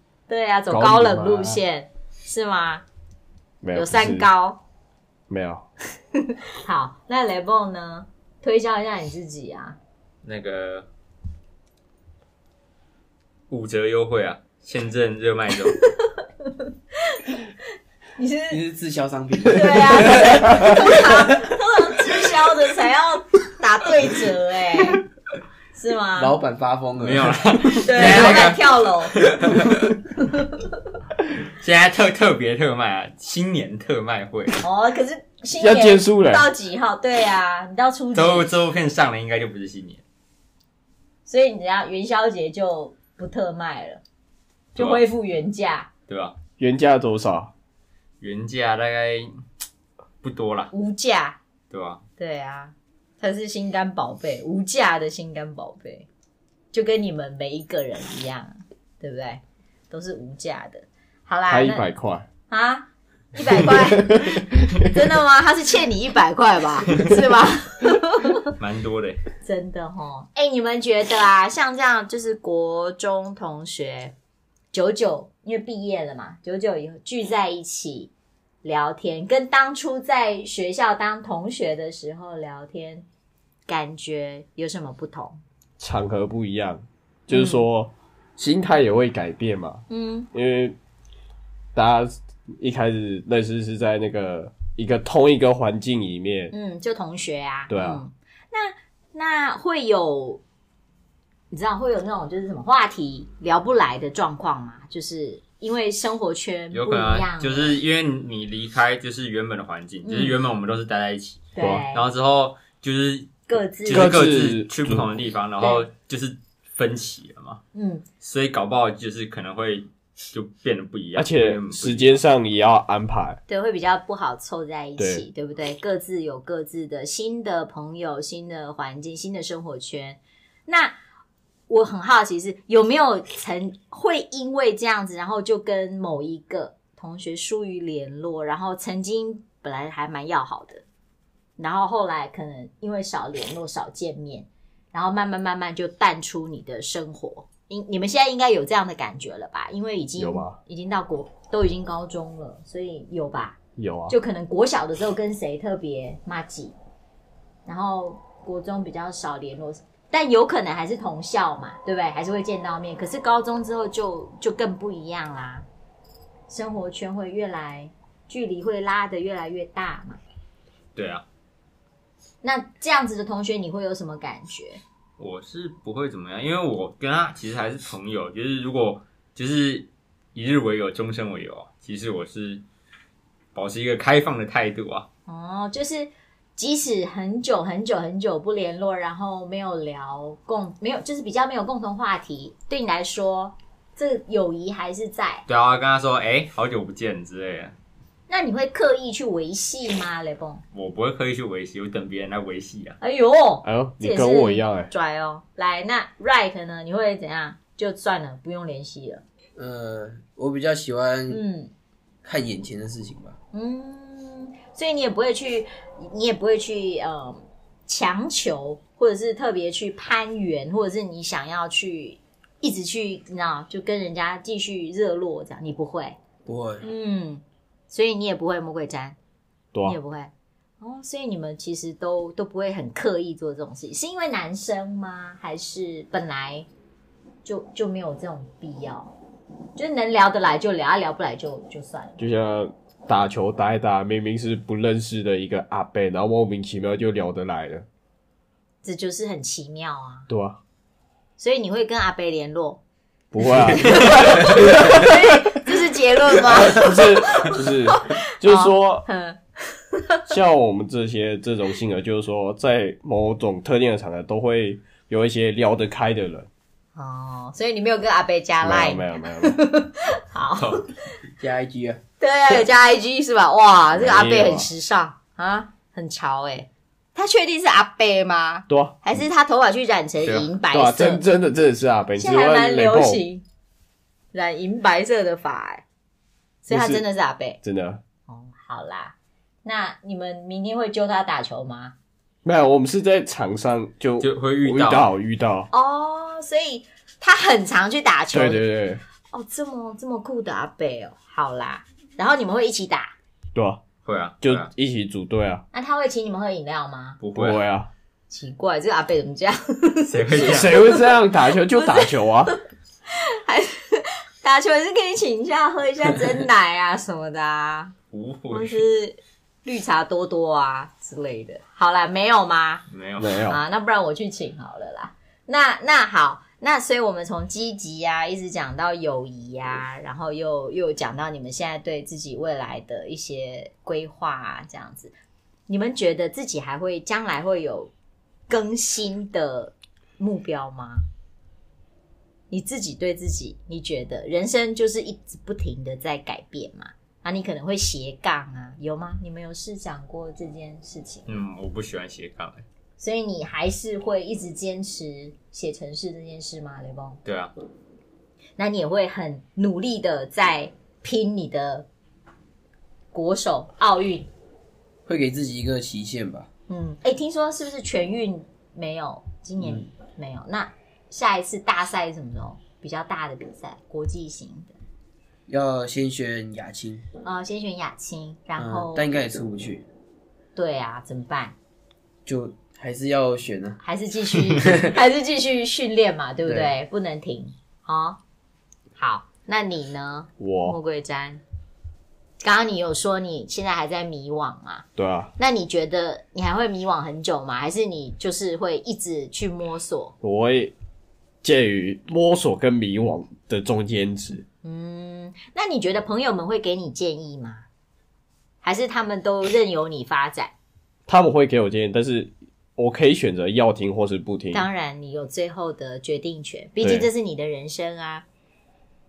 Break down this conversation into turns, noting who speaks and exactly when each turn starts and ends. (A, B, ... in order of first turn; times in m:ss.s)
0:00.3-0:02.8 A
0:00.7-0:01.6 B
0:03.6-0:04.3 B
0:03.7-0:04.6 A
0:05.3-0:05.7 B
0:06.3-0:09.8 A
0:10.2-0:10.9 C
0:13.5-0:15.8 C
0:16.1-0:17.4 A
0:18.2-0:18.6 A
0:18.5-0:21.6 D
0:19.5-0:25.0 A
0:25.7-0:26.4 A
0:26.2-0:28.5 D
0:27.0-0:29.9 C
0:27.8-0:29.2 A
0:30.2-0:30.7 A
0:31.5-0:34.6 C
0:34.6-0:38.5 A
0:35.6-0:36.5 B
0:38.1-0:40.0 C
0:41.3-0:44.0 A
0:44.8-0:45.9 A
0:44.8-0:45.0 C
0:46.1-0:46.4 C
0:46.6-0:47.5 B
0:48.2-0:49.3 C
0:50.2-0:50.7 C
0:50.7-0:51.4 A
0:51.7-0:52.0 C
0:52.2-0:56.1 A
0:56.7-1:01.9 A
1:01.5-1:02.3 B
1:02.5-1:08.5 A
1:03.5-1:04.9 B
1:08.6-1:09.2 C
1:09.4-1:14.2 A
1:14.7-1:18.1 A
1:18.6-1:23.0 A
1:23.7-1:25.4 A
1:25.8-1:30.8 B
1:27.3-1:27.6 A
1:29.9-1:30.3 A
1:31.8-1:36.5 B
1:36.5-1:40.4 A
1:37.7-1:38.0 B
1:41.5-1:47.8 A
1:46.7-1:57.6 C
1:50.0-1:50.4 A
1:51.6-1:52.0 A
1:51.6-1:51.8 B
1:53.5-1:54.2 A
1:53.9-1:55.1 B
1:55.6-1:55.9 A
1:57.7-1:58.0 A
1:58.2-2:02.2 C
2:01.2-2:03.4 B
2:03.5-2:11.0 A
2:05.0-2:05.2 B
2:11.7-2:20.8 A
2:21.6-2:36.8 A
2:30.2-2:30.6 B
2:33.8-2:34.2 B
2:37.7-2:45.7 A
2:46.5-2:50.2 A
2:51.0-2:51.2 C
2:52.4-2:54.8 A
2:55.2-3:02.6 C
3:03.6-3:05.1 C
3:05.3-3:15.4 A
3:15.5-3:17.8 C
3:18.3-3:20.6 A
3:20.7-3:23.0 C
3:23.0-3:29.2 A
3:23.6-3:24.9 B
3:29.6-3:31.4 D
3:31.3-3:31.7 A
3:32.2-3:33.4 D
3:33.5-3:46.2 A
3:46.5-3:46.9 D
3:46.8-3:49.2 A
3:49.8-3:56.7 A
3:57.4-3:59.1 A
3:59.8-4:02.2 A
4:02.2-4:07.9 B
4:08.8-4:10.3 A
4:10.3-4:10.6 B
4:11.4-4:12.8 A
4:13.3-4:15.5 B
4:13.7-4:20.3 A
4:16.6-4:19.1 B
4:20.3-4:26.5 B
4:27.0-4:31.2 A
4:28.6-4:29.6 B
4:30.6-4:30.8 C
4:31.4-4:32.0 D
4:32.2-4:41.2 A
4:33.9-4:34.7 B
4:38.7-4:39.0 B
4:40.2-4:40.5 C
4:40.7-4:43.2 B
4:42.2-4:43.4 A
4:44.3-4:45.8 A
4:46.6-4:47.6 A
4:46.7-4:47.0 B
4:47.6-4:48.0 B
4:48.3-4:52.0 A
4:52.4-4:55.7 B
4:54.2-4:55.1 C
4:55.7-4:58.6 A
4:58.3-4:59.0 B
4:59.3-5:03.1 A
5:03.5-5:03.8 B
5:04.0-5:04.7 C
5:04.4-5:05.6 B
5:05.7-5:07.2 A
5:07.2-5:07.6 C
5:07.3-5:07.9 B
5:08.3-5:12.6 A
5:10.1-5:10.9 C
5:10.3-5:12.5 B
5:13.1-5:17.9 A
5:18.1-5:18.8 C
5:18.5-5:22.8 A
5:22.9-5:23.4 C
5:23.2-5:23.6 B
5:23.5-5:35.1 A
5:35.7-5:37.9 A
5:38.5-5:41.0 A
5:42.5-5:51.3 A
5:51.3-5:52.6 C
5:53.0-5:57.2 A
5:57.2-5:57.5 C
5:58.6-6:01.9 A
6:03.1-6:04.3 A
6:05.1-6:06.5 D
6:06.7-6:14.7 A
6:15.5-6:17.1 D
6:17.2-6:19.1 A
6:18.6-6:19.8 D
6:20.6-6:21.6 A
6:22.3-6:23.8 D
6:23.8-6:28.2 A
6:24.4-6:25.0 D
6:26.5-6:26.7 D
6:29.0-6:31.4 A
6:30.4-6:30.8 B
6:32.4-6:34.9 A
6:35.0-6:35.3 B
6:35.4-6:40.2 A
6:40.2-6:40.7 B
6:41.4-6:44.4 B
6:44.6-6:47.7 A
6:48.6-6:50.5 A
6:51.1-6:54.7 B
6:54.5-6:58.2 A
6:56.8-6:57.1 B